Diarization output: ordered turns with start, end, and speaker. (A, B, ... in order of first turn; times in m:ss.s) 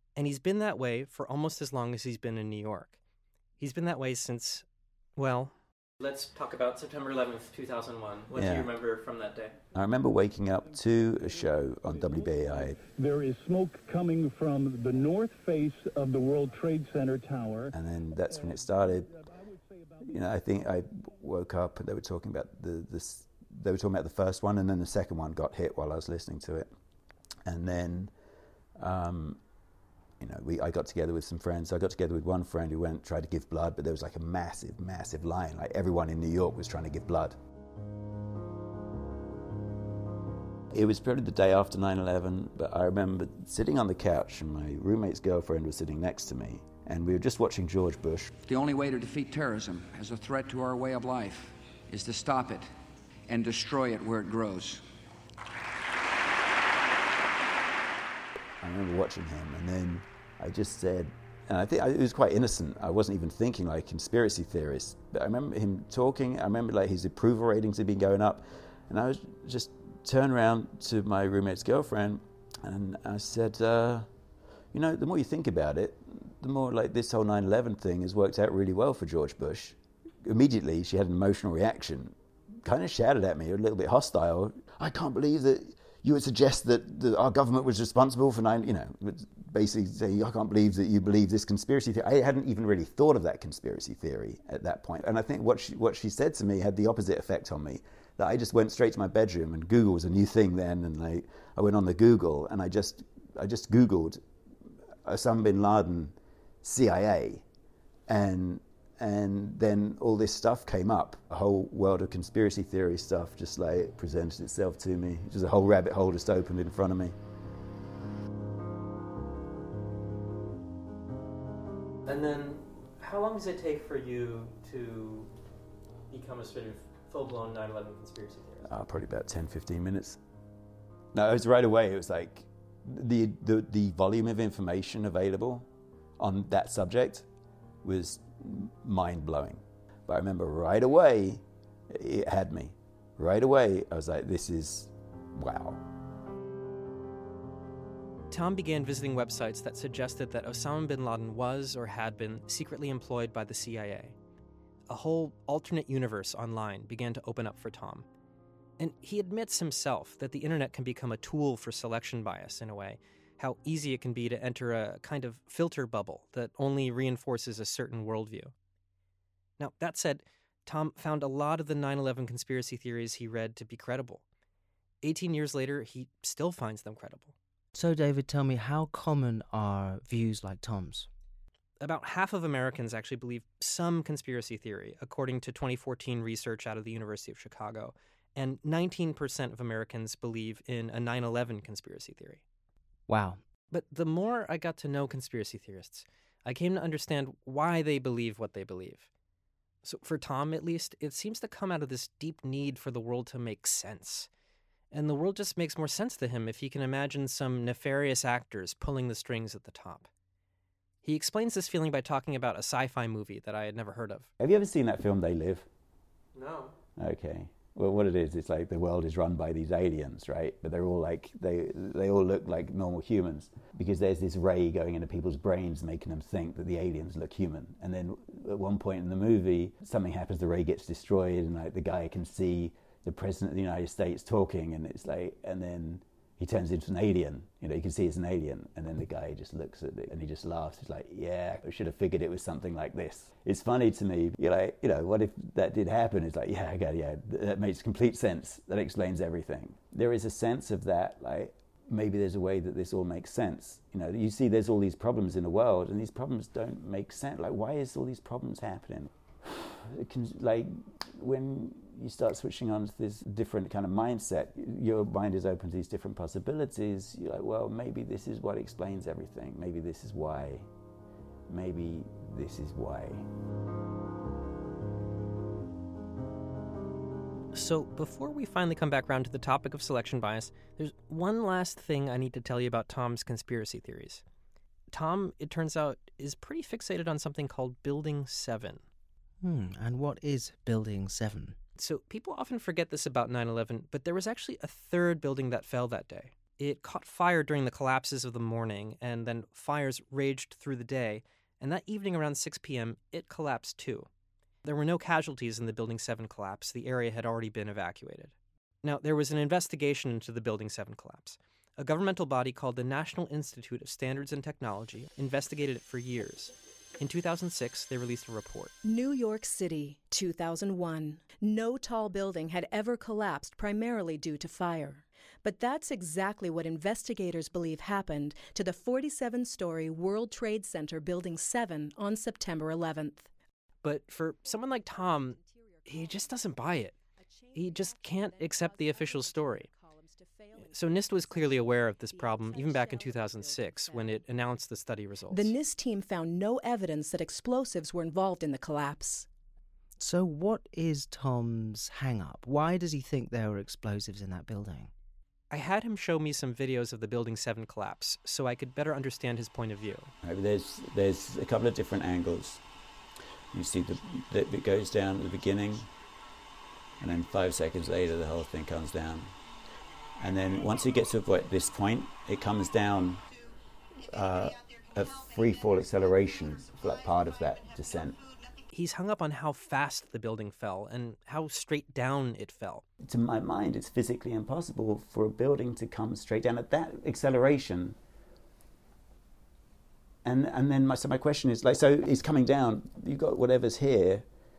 0:00.2-0:03.0 A
0:03.6-0:04.6 A
0:05.2-0:09.6 A
0:08.3-0:08.7 B
0:09.7-0:12.8 B
0:10.7-0:17.7 C
0:17.7-0:19.1 B
0:18.3-0:20.1 C
0:20.0-0:26.7 B
0:27.4-0:28.1 B
0:28.8-0:29.4 B
0:30.2-0:37.4 B
0:40.7-0:48.3 B
0:48.3-0:52.7 D
0:53.3-0:54.9 D
0:58.6-1:14.1 B
1:14.7-1:44.2 B
1:45.0-1:47.4 B
1:48.1-1:57.2 B
2:02.0-2:05.3 A
2:06.1-2:08.7 A
2:08.6-2:10.2 B
2:11.1-2:15.7 B
2:16.2-2:17.2 B
2:17.8-2:25.8 B
2:28.3-2:34.1 A
2:34.9-2:38.0 A
2:38.8-2:48.5 A
2:49.6-2:54.2 A
2:55.0-2:57.3 A
2:57.7-3:01.1 E
3:01.8-3:12.4 A
3:13.1-3:13.4 E
3:13.7-3:19.1 A
3:19.8-3:24.3 A
3:24.9-3:30.1 A
3:31.0-3:34.3 A
3:34.4-3:35.7 B
3:36.3-3:36.7 A
3:37.0-4:30.7 B
4:31.5-4:33.3 B
4:37.5-4:44.2 A
4:44.9-4:48.8 A
4:49.4-4:51.6 E
4:51.8-5:04.1 A
5:04.6-5:18.7 A
5:18.8-5:33.3 F
5:33.8-5:37.0 A
5:37.5-5:39.7 A
5:39.1-5:41.5 F
5:40.5-5:45.5 A
5:42.0-5:44.2 F
5:45.3-5:49.3 F
5:50.0-5:54.9 E
5:55.5-6:00.1 A
6:00.2-6:02.6 B
6:03.5-6:05.9 B
6:07.0-6:09.4 B
6:10.2-6:13.2 B
6:14.0-6:18.3 B
6:18.7-6:22.8 A
6:23.0-6:28.0 B
6:30.2-6:34.2 B